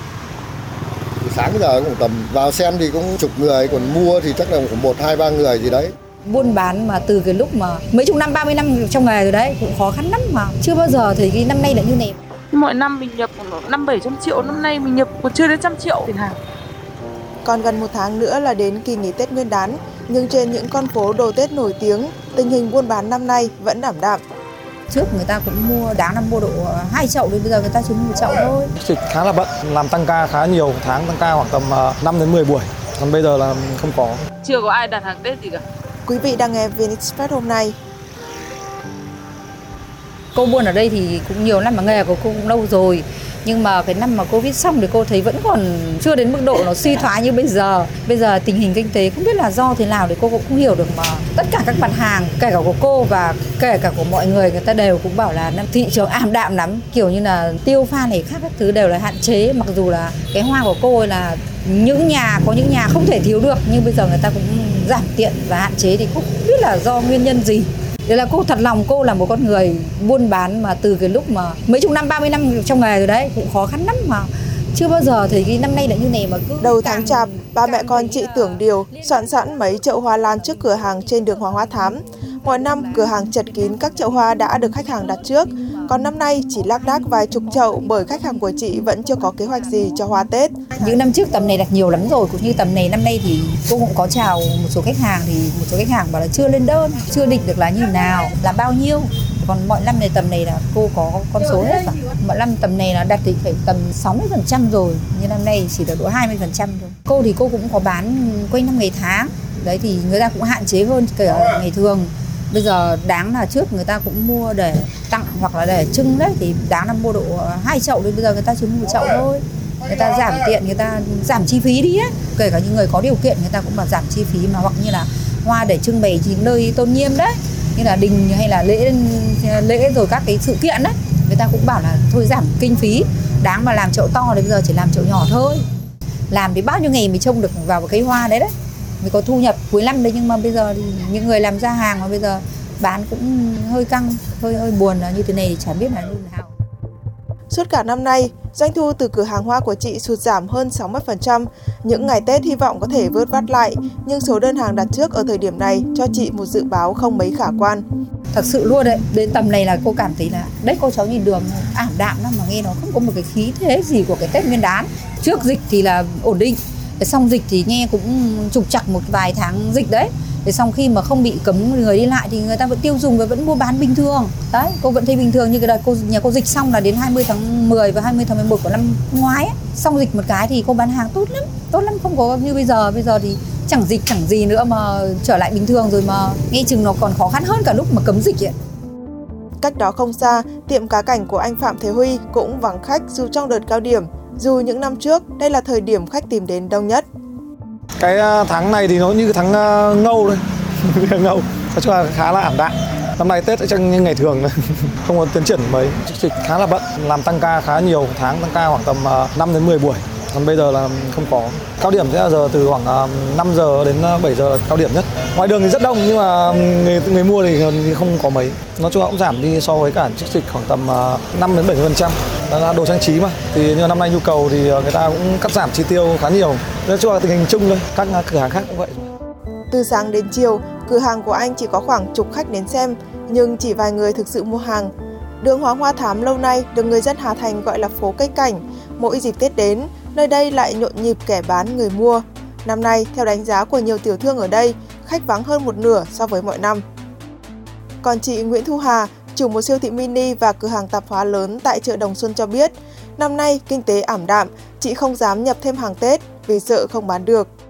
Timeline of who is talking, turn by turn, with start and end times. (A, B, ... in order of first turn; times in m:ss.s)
0:01.2-0:05.9 A
0:06.2-0:12.2 B
0:12.5-0:16.4 C
0:17.4-0:24.2 D
0:24.9-0:28.7 B
0:28.8-0:34.2 E
0:34.4-0:35.6 C
0:36.0-0:37.8 D
0:40.3-1:18.0 B
1:16.6-1:31.0 D
1:30.8-2:15.6 B
2:16.3-2:26.5 B
2:27.5-2:37.8 D
2:38.3-3:08.5 B
3:09.6-3:17.0 D
3:18.0-3:24.5 E
3:25.0-3:49.1 E
3:49.7-4:06.8 D
4:08.0-4:17.5 D